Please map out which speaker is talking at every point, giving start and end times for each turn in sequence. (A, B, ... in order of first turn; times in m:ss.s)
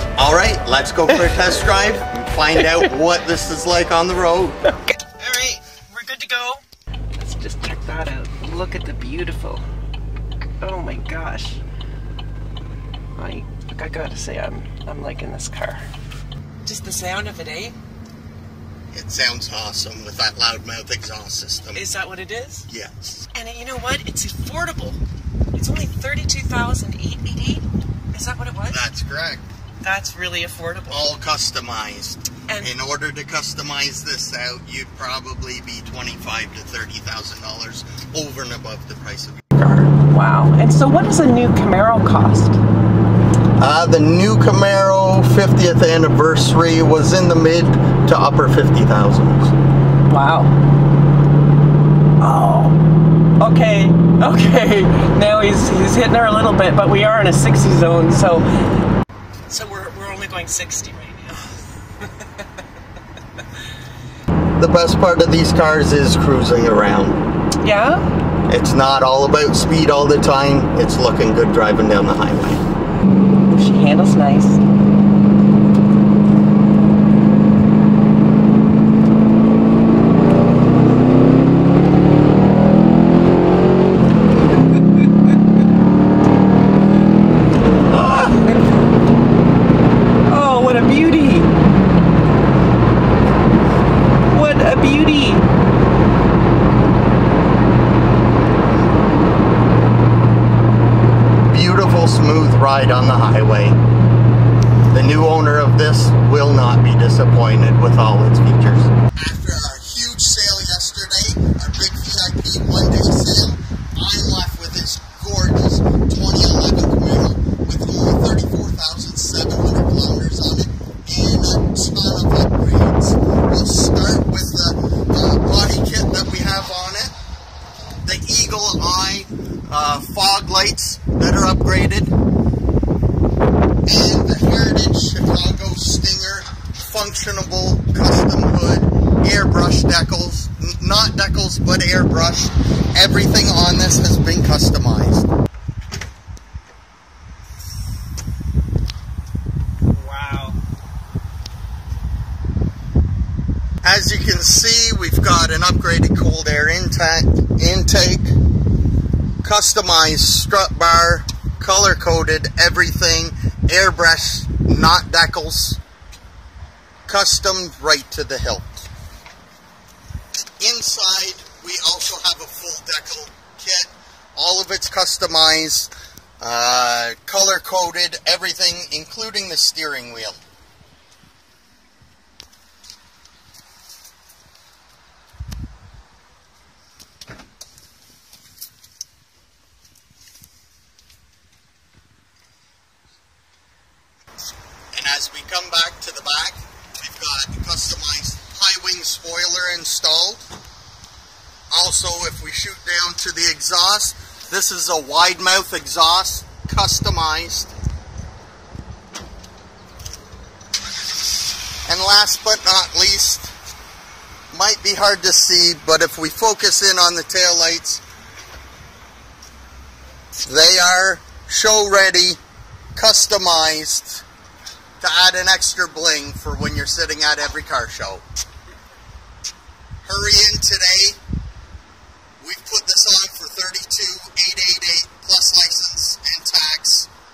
0:00.2-0:04.6 A
0:02.6-0:02.8 B
0:04.7-0:06.6 B
0:07.2-0:09.6 B
0:10.6-0:11.6 B
0:13.2-0:15.8 B
0:16.6-0:17.8 B
0:18.9-0:21.8 A
0:21.7-0:22.7 B
0:22.7-0:23.2 A
0:23.3-0:25.0 B
0:25.5-0:28.8 B
0:28.7-0:29.5 A
0:29.8-0:31.1 B
0:30.9-0:39.9 A
0:32.5-0:32.7 B
0:40.0-0:42.6 B
0:43.6-0:49.5 A
0:50.1-0:50.5 B
0:52.2-0:52.8 B
0:53.4-0:58.5 B
0:59.5-1:02.4 B
1:04.6-1:07.2 A
1:07.6-1:08.0 B
1:08.5-1:12.6 A
1:13.5-1:14.6 B
1:27.9-1:28.6 B
1:30.3-1:31.5 B
1:34.3-1:35.4 B
1:41.5-1:43.8 A
1:44.9-2:07.1 A
2:08.0-2:12.1 A
2:13.9-2:25.3 A
2:29.9-2:30.6 B
2:33.8-2:38.3 A
2:39.4-2:45.8 A
2:47.1-2:48.9 A
2:50.6-3:00.4 A
3:14.9-3:20.5 A
3:21.7-3:27.7 A
3:31.9-3:33.5 A
3:34.5-3:38.0 A
3:40.4-3:42.4 A
3:43.0-3:44.2 A
3:45.0-3:48.2 A
3:50.0-3:51.2 A
3:52.4-3:57.1 A